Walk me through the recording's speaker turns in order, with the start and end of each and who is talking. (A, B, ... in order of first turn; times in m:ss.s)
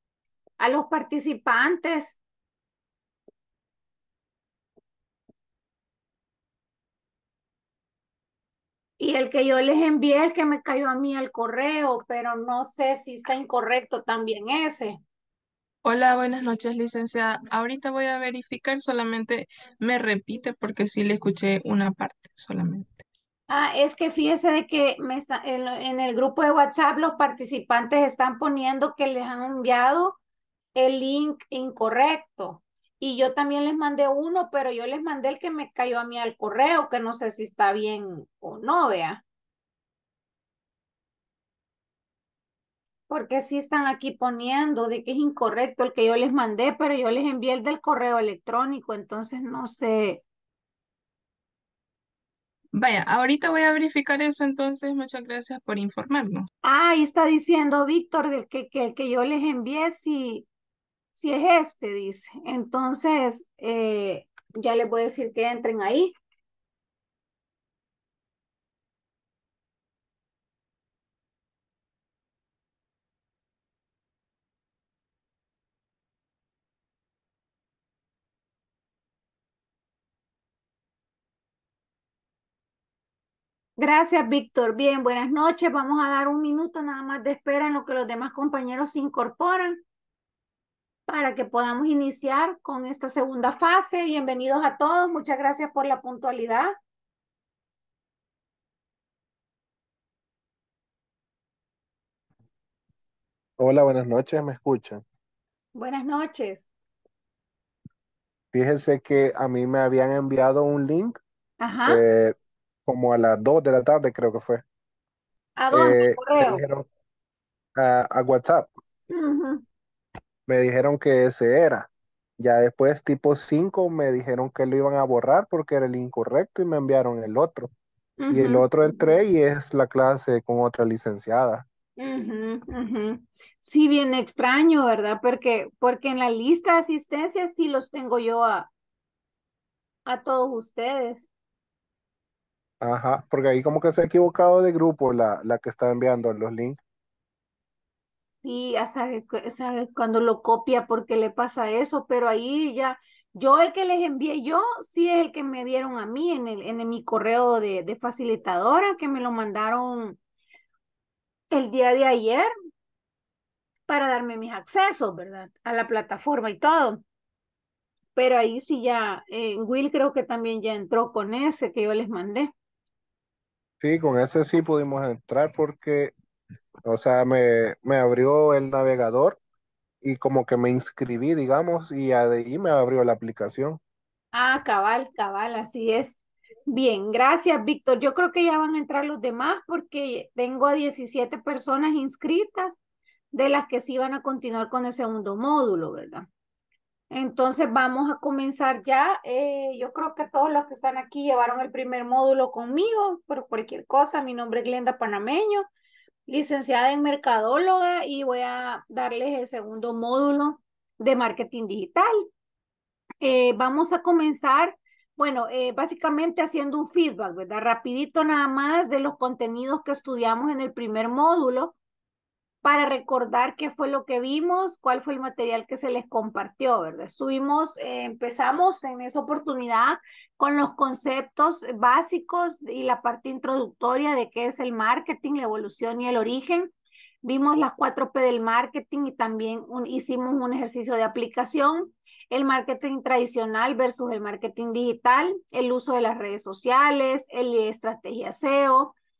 0:00.6-0:02.2 A
0:09.0-0:15.0 A
0:15.8-0:23.0 B
0:23.5-0:30.2 A
0:30.8-0:39.2 A
0:43.1-0:50.2 A
0:52.7-0:56.5 B
0:56.6-1:00.5 A
1:01.1-1:06.1 A
1:23.8-1:29.8 A
1:31.1-1:36.7 A
1:43.6-1:45.0 C
1:45.8-1:46.7 A
1:48.5-1:51.2 C
1:51.6-1:52.0 A
1:51.9-1:52.3 C
1:52.8-1:54.6 C
1:55.6-1:56.6 A
1:55.7-1:56.8 C
1:57.8-1:58.7 C
1:59.1-1:59.6 A
2:00.5-2:07.7 C
2:08.2-2:09.2 A
2:08.3-2:11.6 C
2:12.0-2:18.7 A
2:20.1-2:21.3 A
2:22.8-2:26.8 C
2:28.4-2:40.2 A
2:41.5-2:42.5 A
2:43.9-2:47.0 A
2:48.2-2:52.5 A
2:53.8-2:56.1 C
2:56.8-2:59.4 C
3:00.0-3:03.8 C
3:04.3-3:12.8 A
3:13.3-3:16.3 A
3:17.1-3:25.6 A
3:26.3-3:32.3 A
3:33.2-3:41.7 A
3:42.6-3:56.7 A
3:57.2-4:08.9 A